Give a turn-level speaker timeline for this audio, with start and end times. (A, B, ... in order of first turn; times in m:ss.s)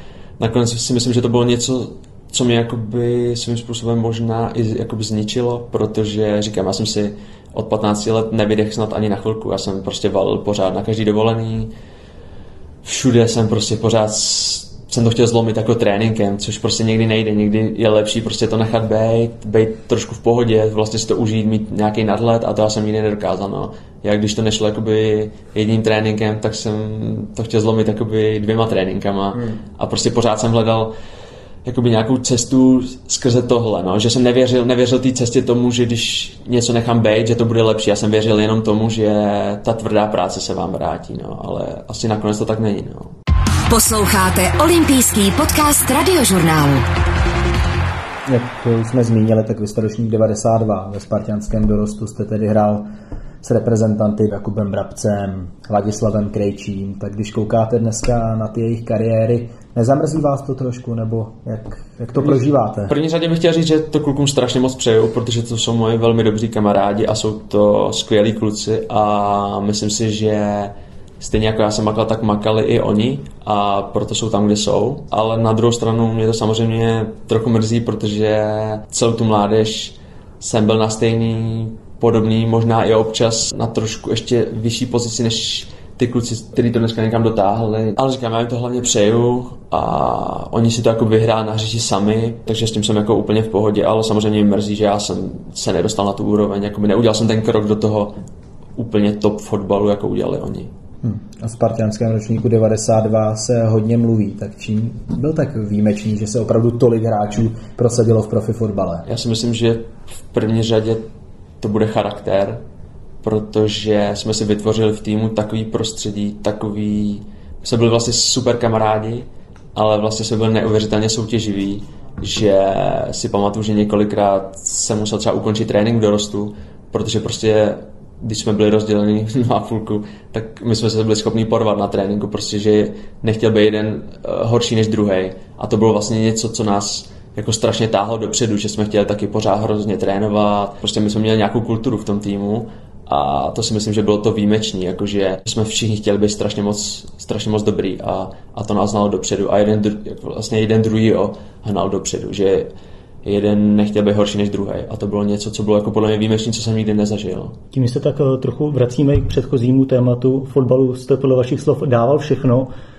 0:00.4-0:11.7 A
0:12.8-0:30.9 A
0:31.6-0:43.2 A
0:43.7-0:46.9 B
0:48.3-0:52.9 C
0:53.4-1:02.9 C
1:02.2-1:38.2 A
1:38.8-1:40.7 A
1:41.0-1:49.1 C
1:49.1-1:51.1 A
1:51.6-1:52.6 A
1:53.2-2:32.7 A
2:33.2-2:37.6 A
2:37.7-2:42.7 D